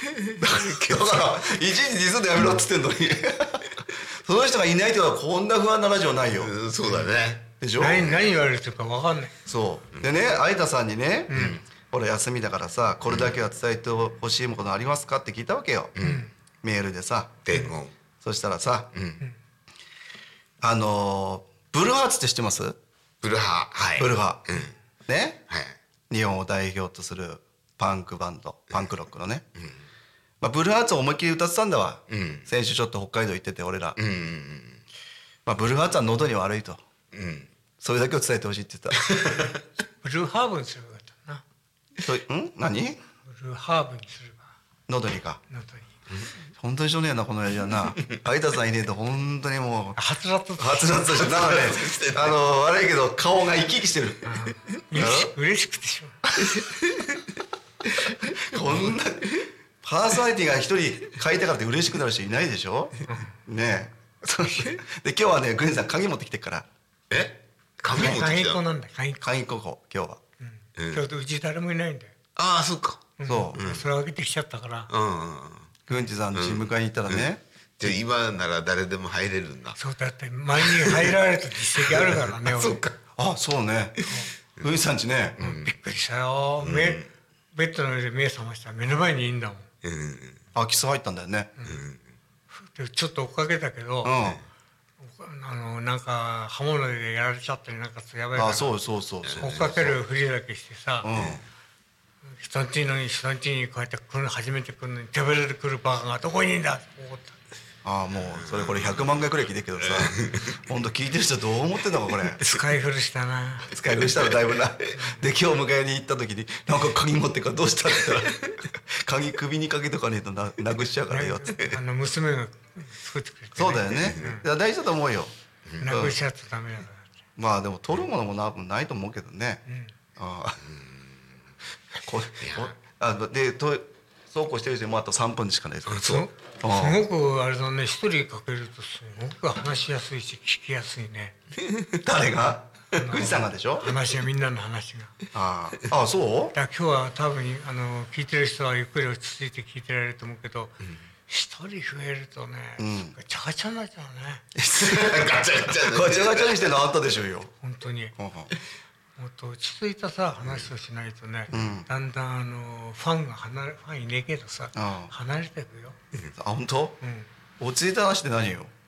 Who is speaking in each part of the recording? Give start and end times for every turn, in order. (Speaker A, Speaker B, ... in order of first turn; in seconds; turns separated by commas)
Speaker A: 0.2-1.3, Speaker B: 0.4-6.5, Speaker A: 6.4-7.5, Speaker B: 7.6-8.1, Speaker C: 7.8-9.3, Speaker B: 9.5-15.9, Speaker C: 11.3-11.6, Speaker A: 11.3-11.6, Speaker A: 13.1-13.3, Speaker A: 15.9-16.3, Speaker C: 16.0-16.3, Speaker B: 16.6-17.4, Speaker A: 17.5-17.9, Speaker B: 18.2-18.9, Speaker A: 18.9-19.2, Speaker B: 20.6-22.8, Speaker A: 23.2-24.8, Speaker B: 24.0-25.4, Speaker A: 25.5-25.8, Speaker B: 26.1-29.5, Speaker B: 30.4-34.0, Speaker A: 32.1-32.5, Speaker A: 34.0-34.8, Speaker B: 35.5-36.8, Speaker A: 37.1-37.5, Speaker B: 37.8-39.1, Speaker A: 39.1-39.5, Speaker C: 40.0-41.4, Speaker B: 42.0-43.0, Speaker C: 43.3-44.5, Speaker B: 44.9-45.4, Speaker C: 45.5-45.9, Speaker B: 46.6-50.0, Speaker C: 50.0-51.3, Speaker B: 50.6-54.4, Speaker A: 51.2-52.4, Speaker C: 54.2-56.2, Speaker B: 54.9-55.3, Speaker A: 56.4-57.2, Speaker B: 58.2-66.7, Speaker C: 63.1-63.3, Speaker A: 67.1-68.6, Speaker C: 67.9-69.3, Speaker B: 69.2-70.2, Speaker C: 70.4-72.1, Speaker A: 70.8-71.0, Speaker A: 72.4-73.9, Speaker C: 73.2-74.9, Speaker B: 73.2-73.6, Speaker A: 74.9-75.8, Speaker B: 75.9-78.0, Speaker A: 76.3-77.3, Speaker A: 77.8-79.8, Speaker C: 79.8-82.8, Speaker A: 80.6-81.2, Speaker A: 81.8-83.0, Speaker B: 83.2-84.0, Speaker B: 84.6-85.4, Speaker A: 85.4-85.7, Speaker C: 85.4-89.7, Speaker A: 86.6-87.1, Speaker A: 89.8-90.4, Speaker B: 90.5-91.5, Speaker A: 91.7-92.0, Speaker C: 92.6-94.2, Speaker B: 94.0-94.4, Speaker C: 95.0-98.8, Speaker B: 98.3-100.0, Speaker A: 99.2-99.8, Speaker C: 99.4-101.1, Speaker B: 101.0-101.4, Speaker A: 101.1-101.4, Speaker C: 102.4-107.4, Speaker B: 107.8-112.4, Speaker A: 108.2-109.1, Speaker A: 109.9-110.5, Speaker C: 112.4-113.7, Speaker B: 113.7-121.6, Speaker C: 115.0-115.3, Speaker C: 121.1-124.5, Speaker B: 123.5-126.2, Speaker A: 124.0-124.3, Speaker C: 125.8-127.1, Speaker B: 127.4-129.6, Speaker C: 129.7-129.9, Speaker B: 130.2-130.6, Speaker B: 132.0-137.1, Speaker A: 132.4-132.7, Speaker A: 135.9-136.3, Speaker C: 136.1-141.3, Speaker B: 142.0-143.9, Speaker C: 142.9-145.1, Speaker B: 145.3-146.6, Speaker C: 146.5-154.4, Speaker B: 152.8-153.2, Speaker B: 154.6-157.5, Speaker A: 154.8-156.7, Speaker C: 157.6-158.2, Speaker B: 158.2-158.5, Speaker C: 159.2-166.0, Speaker B: 161.5-161.9, Speaker B: 164.8-165.1, Speaker B: 166.3-167.0, Speaker C: 167.0-167.3, Speaker B: 167.6-168.7